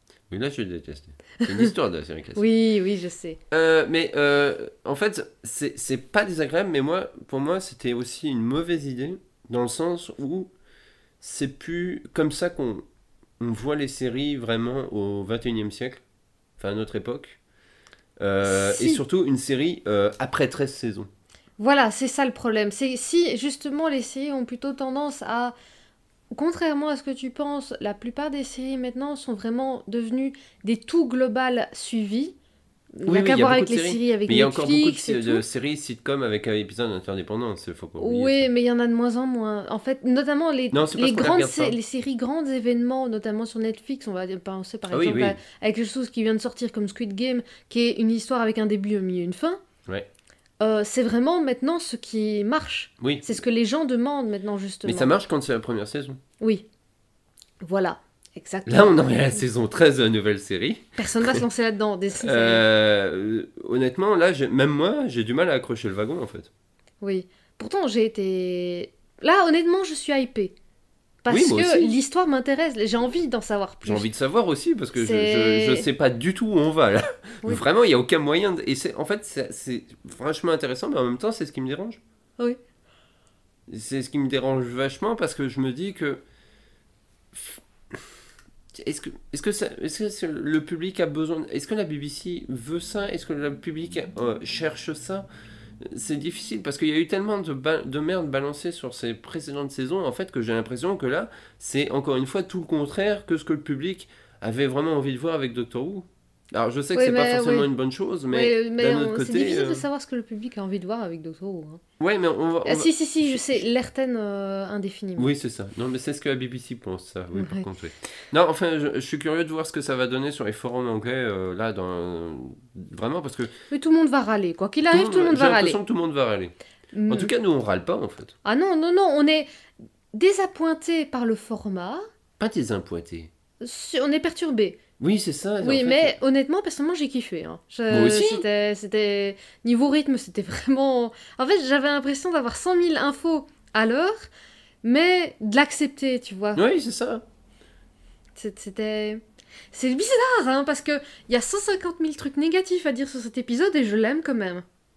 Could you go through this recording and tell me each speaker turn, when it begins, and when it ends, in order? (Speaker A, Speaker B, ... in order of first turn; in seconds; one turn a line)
Speaker A: 0.3-2.4
Speaker B: 1.4-1.7
Speaker B: 2.4-3.4
Speaker A: 3.5-10.5
Speaker A: 11.2-12.8
Speaker A: 13.4-16.0
Speaker A: 16.6-17.4
Speaker A: 18.2-21.1
Speaker B: 18.4-19.0
Speaker B: 21.6-25.6
Speaker B: 26.3-32.4
Speaker B: 33.0-35.4
Speaker A: 33.1-38.5
Speaker B: 38.0-49.6
Speaker A: 40.7-41.8
Speaker A: 44.9-45.4
Speaker B: 50.6-55.2
Speaker A: 53.0-53.4
Speaker A: 54.8-56.2
Speaker B: 56.4-56.6
Speaker B: 57.6-59.2
Speaker A: 58.7-61.4
Speaker B: 61.0-62.6
Speaker A: 62.2-66.5
Speaker B: 67.0-70.5
Speaker B: 71.2-74.1
Speaker A: 71.3-72.0
Speaker A: 73.8-82.0
Speaker B: 75.0-75.9
Speaker A: 83.7-86.2
Speaker A: 87.3-88.0
Speaker A: 88.7-95.3
Speaker A: 95.8-109.8
Speaker B: 106.9-107.7
Speaker B: 108.3-111.8
Speaker A: 112.0-113.6
Speaker B: 112.7-115.3
Speaker A: 115.2-123.5
Speaker B: 117.3-117.7
Speaker B: 123.7-125.8
Speaker A: 124.9-126.5
Speaker B: 126.9-127.3
Speaker A: 127.1-128.3
Speaker B: 128.4-129.5
Speaker B: 130.1-132.1
Speaker A: 132.4-133.3
Speaker B: 133.6-134.8
Speaker A: 135.0-136.2
Speaker B: 135.6-144.3
Speaker A: 137.9-138.4
Speaker B: 144.8-146.6
Speaker A: 146.6-147.2
Speaker B: 148.4-149.2
Speaker B: 149.7-154.6